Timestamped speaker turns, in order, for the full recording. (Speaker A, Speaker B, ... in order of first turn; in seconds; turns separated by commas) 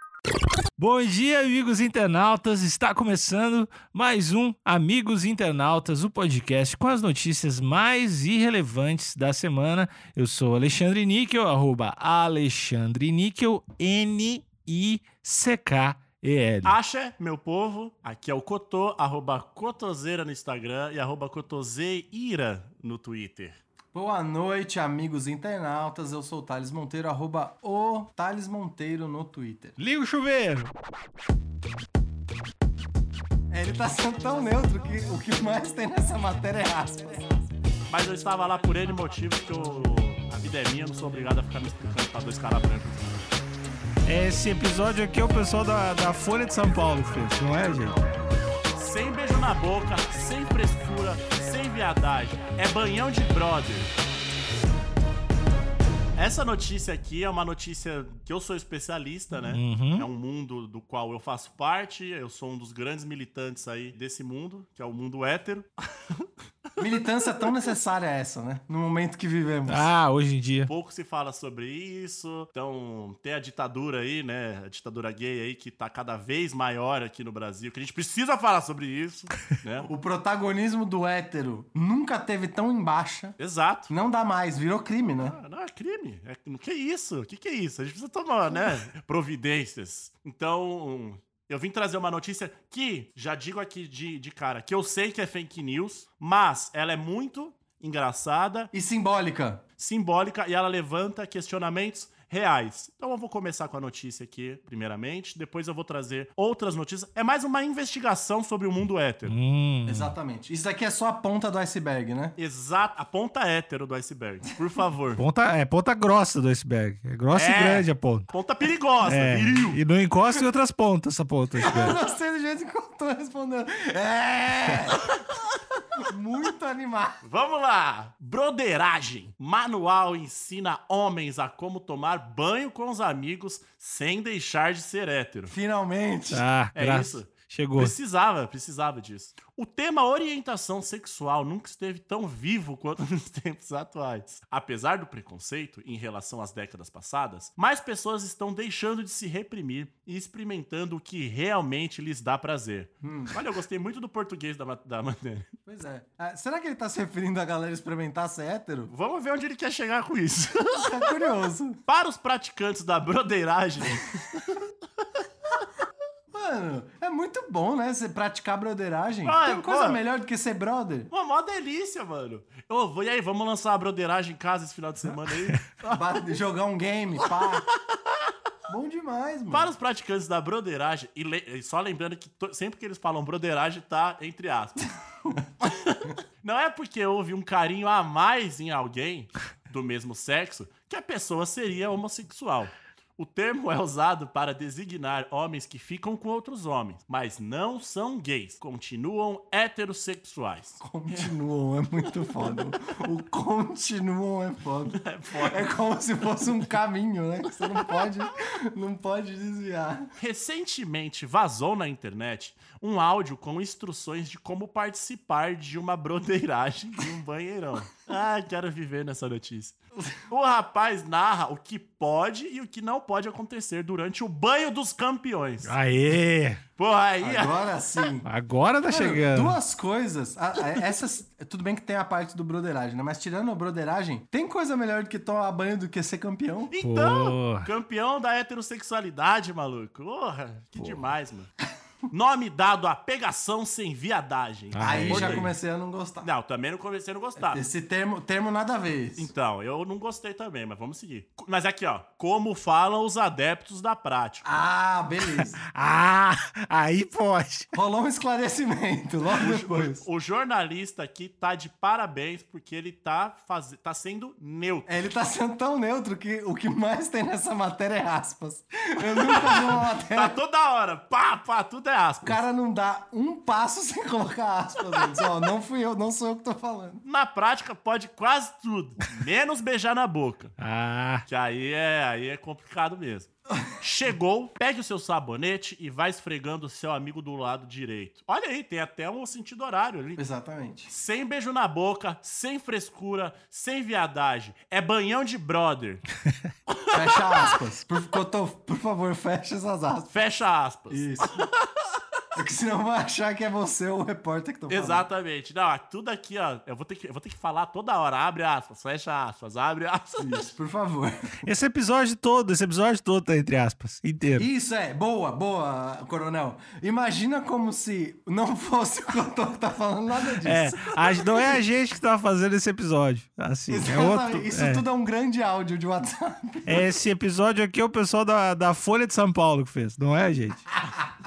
Speaker A: 0.8-16.8, Speaker B: 16.6-23.6, Speaker C: 23.9-29.8, Speaker A: 29.8-30.7, Speaker C: 33.5-37.4, Speaker B: 37.9-43.2, Speaker A: 44.0-48.0, Speaker B: 48.7-53.9, Speaker B: 56.1-65.7, Speaker A: 59.4-60.1, Speaker C: 66.8-69.9, Speaker A: 69.7-70.7, Speaker B: 70.7-79.9, Speaker C: 79.9-83.4, Speaker B: 83.4-83.9, Speaker C: 83.9-85.4, Speaker B: 85.2-98.7, Speaker C: 98.7-99.6, Speaker B: 99.8-109.4, Speaker A: 109.2-110.1, Speaker C: 109.9-112.3, Speaker B: 112.4-115.2, Speaker A: 115.2-118.3, Speaker B: 117.3-119.8, Speaker A: 119.0-122.0, Speaker C: 121.6-125.2, Speaker C: 126.0-127.2, Speaker B: 127.2-135.5, Speaker C: 135.5-136.4, Speaker A: 136.3-137.9, Speaker B: 136.7-155.5, Speaker C: 153.0-153.3, Speaker C: 155.7-158.9, Speaker B: 158.9-161.1, Speaker C: 160.8-161.8, Speaker B: 161.8-164.7, Speaker C: 166.3-171.1, Speaker B: 169.2-170.0, Speaker B: 171.1-176.2, Speaker C: 175.9-177.7, Speaker B: 177.2-178.3, Speaker C: 178.7-179.7, Speaker B: 179.5-184.9, Speaker B: 185.6-201.3, Speaker C: 200.8-210.1, Speaker B: 204.9-205.7, Speaker B: 207.6-208.0, Speaker B: 210.2-225.7, Speaker A: 225.6-226.6, Speaker B: 226.8-228.0, Speaker C: 227.2-228.3, Speaker A: 228.2-229.6, Speaker C: 228.9-236.7, Speaker B: 236.7-241.5, Speaker A: 236.8-237.7, Speaker B: 242.1-245.5, Speaker A: 244.7-245.5, Speaker C: 244.8-246.3, Speaker B: 246.2-247.6, Speaker C: 247.4-249.3, Speaker B: 249.2-254.4, Speaker C: 254.4-255.6, Speaker A: 255.7-257.7, Speaker C: 257.7-260.1, Speaker B: 259.4-264.9, Speaker C: 264.9-270.4, Speaker B: 269.0-272.4, Speaker C: 272.2-277.0, Speaker B: 277.0-280.5, Speaker A: 280.6-281.2, Speaker B: 281.2-290.2, Speaker C: 290.2-290.9, Speaker B: 290.9-296.0, Speaker B: 296.7-297.6, Speaker C: 296.9-300.1, Speaker B: 300.1-302.0, Speaker C: 300.9-301.4, Speaker C: 302.3-305.1, Speaker B: 304.7-310.4, Speaker C: 310.2-311.5, Speaker A: 311.4-314.5, Speaker C: 314.4-321.4, Speaker A: 320.4-324.8, Speaker C: 323.7-326.9, Speaker A: 326.6-330.7